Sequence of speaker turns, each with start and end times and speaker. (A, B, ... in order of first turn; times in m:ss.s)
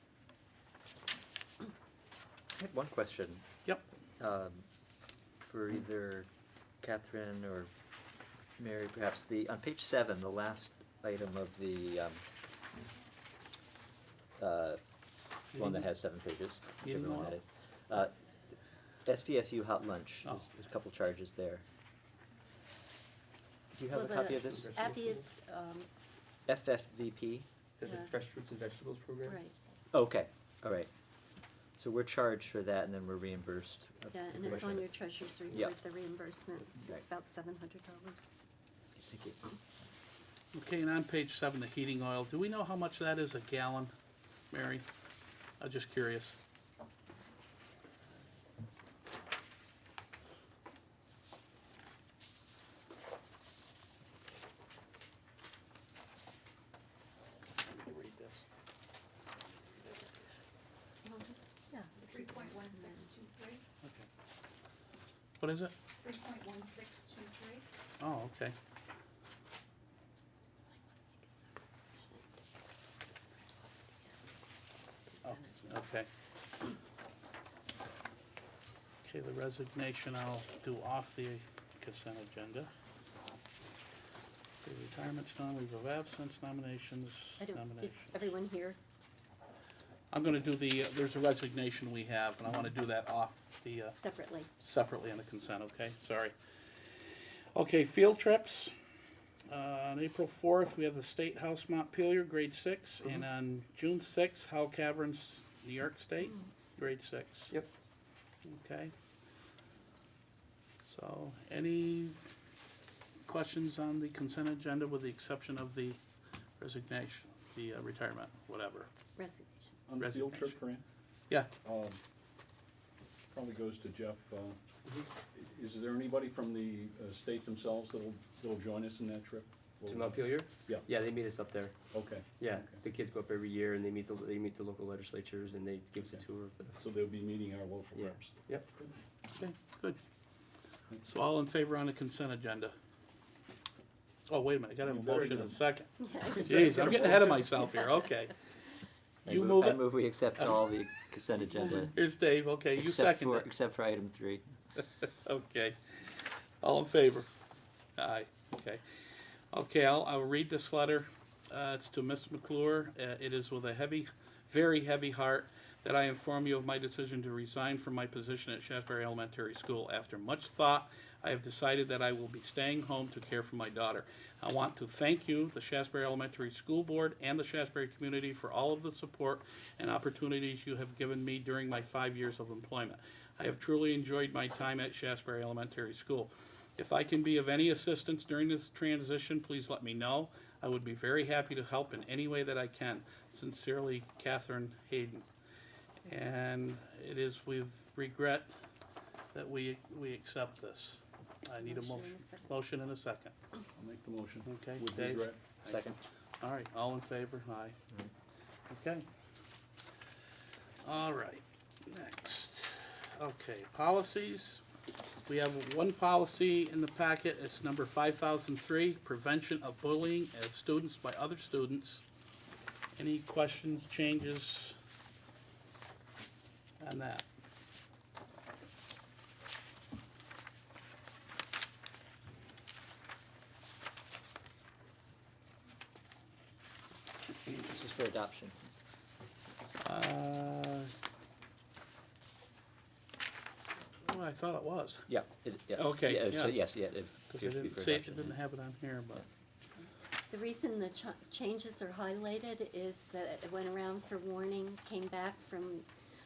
0:02.6-0:03.5 A
0:04.2-0:04.7 A
0:05.5-0:06.3 A
0:06.8-0:07.7 A
0:08.6-0:12.2 A
0:14.4-0:14.8 A
0:15.6-0:15.8 B
0:15.6-0:18.1 A
0:16.8-0:17.4 B
0:19.0-0:21.6 A
0:23.7-0:24.7 A
0:23.9-0:25.9 C
0:24.5-0:25.3 D
0:26.5-0:27.5 A
0:27.8-0:29.4 D
0:27.8-0:28.1 C
0:29.2-0:29.6 C
0:29.9-0:30.9 A
0:31.8-0:34.9 A
0:34.1-0:38.3 C
0:34.4-0:34.8 D
0:39.0-0:39.4 A
0:40.5-0:43.9 B
0:44.5-0:44.9 B
0:45.6-0:46.4 B
0:57.6-0:58.4 B
1:01.0-1:03.3 C
1:02.0-1:03.6 E
1:03.8-1:04.1 B
1:05.4-1:05.7 B
1:06.0-1:07.7 E
1:08.0-1:08.6 B
1:10.7-1:12.4 C
1:15.1-1:15.6 C
1:15.2-1:16.1 B
1:19.0-1:22.7 B
1:24.6-1:28.3 B
1:27.4-1:28.8 C
1:30.1-1:34.0 B
1:33.9-1:34.5 C
1:34.6-1:38.7 B
1:39.5-1:47.5 B
1:48.5-1:48.9 B
1:50.8-1:52.2 B
1:53.3-1:56.0 B
1:56.6-1:58.9 B
1:59.2-1:59.8 C
1:59.9-2:00.8 F
2:00.0-2:00.6 B
2:01.6-2:02.0 F
2:03.3-2:04.6 F
2:05.3-2:10.9 F
2:09.9-2:11.8 D
2:11.9-2:12.8 F
2:12.4-2:16.8 D
2:16.0-2:16.3 F
2:16.8-2:18.9 F
2:17.9-2:18.7 D
2:19.4-2:20.0 B
2:21.1-2:22.8 B
2:24.3-2:28.4 B
2:24.8-2:25.6 F
2:26.0-2:27.2 C
2:26.6-2:27.1 F
2:29.3-2:29.9 B
2:29.3-2:32.0 A
2:31.8-2:33.5 B
2:32.8-2:34.4 A
2:35.1-2:37.3 B
2:38.0-2:38.8 B
2:39.5-3:15.3 B
3:16.1-3:18.5 B
3:19.3-3:23.3 B
3:21.6-3:22.5 C
3:23.8-3:25.4 F
3:24.5-3:27.8 B
3:25.7-3:26.0 A
3:28.7-3:29.0 B
3:30.8-3:34.6 B
3:35.3-3:42.0 B
3:43.0-3:44.8 B
3:46.8-3:47.2 B
3:57.5-3:58.6 A
3:59.8-4:00.9 B
4:04.0-4:05.1 B
4:05.1-4:08.4 A
4:05.8-4:06.6 B
4:07.3-4:09.3 B
4:10.3-4:15.9 C